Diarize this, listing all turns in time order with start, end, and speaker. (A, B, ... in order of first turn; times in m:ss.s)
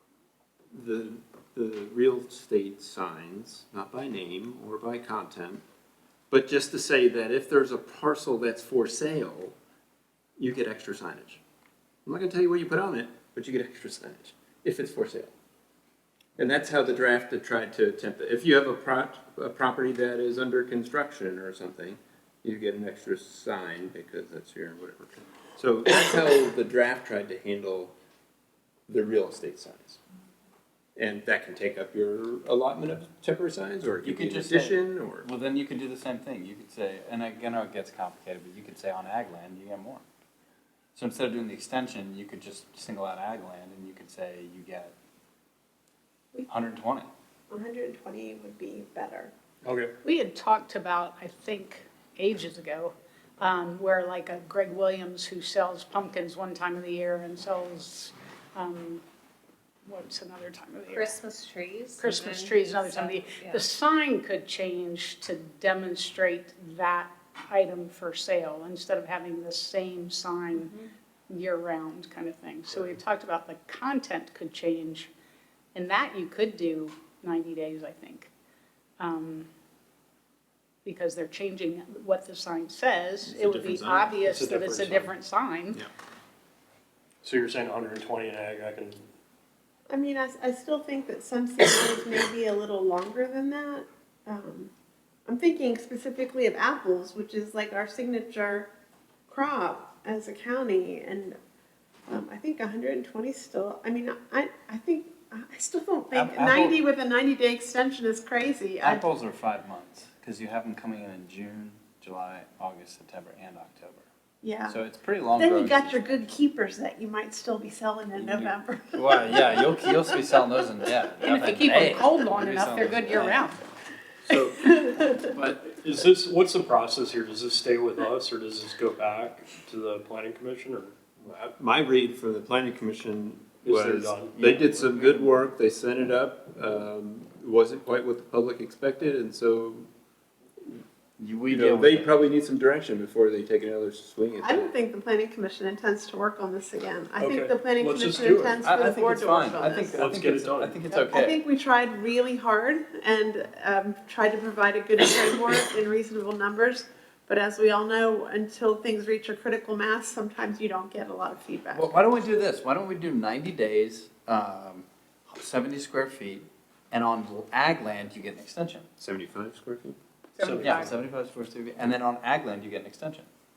0:00.7-0:05.6 A
0:06.3-0:09.6 A
0:10.4-0:11.4 A
0:12.0-0:15.3 A
0:16.4-0:27.9 A
0:28.9-0:30.0 A
0:31.0-0:35.3 A
0:34.0-0:40.0 B
0:41.0-0:44.9 B
0:46.5-0:47.1 B
0:47.5-0:49.3 C
0:49.6-0:49.9 D
0:50.0-0:59.0 E
0:59.8-1:01.2 E
1:00.9-1:03.6 F
1:02.0-1:10.7 E
1:10.6-1:10.8 F
1:11.3-1:15.1 E
1:15.7-1:18.3 E
1:19.0-1:19.5 E
1:20.8-1:25.8 E
1:23.2-1:24.1 A
1:24.2-1:25.1 D
1:27.2-1:29.0 D
1:29.9-1:34.7 C
1:35.2-1:38.7 C
1:39.3-1:41.4 C
1:42.1-1:49.0 C
1:46.1-1:46.8 B
1:48.8-1:54.0 B
1:54.4-1:54.8 C
1:54.6-1:56.2 B
1:55.4-2:00.1 C
1:58.1-2:03.5 B
2:01.2-2:03.6 E
2:04.6-2:05.3 C
2:05.1-2:05.6 B
2:05.6-2:10.9 D
2:11.2-2:19.9 A
2:13.6-2:14.3 D
2:14.4-2:15.4 B
2:21.2-2:22.2 B
2:21.5-2:24.7 A
2:24.4-2:30.1 C
2:27.2-2:28.6 D
2:28.6-2:31.4 B
2:29.9-2:30.8 D
2:31.1-2:42.0 C
2:41.7-2:48.8 B
2:49.0-2:50.0 A
2:50.4-2:50.9 E
2:50.4-2:50.9 D
2:50.6-2:53.3 B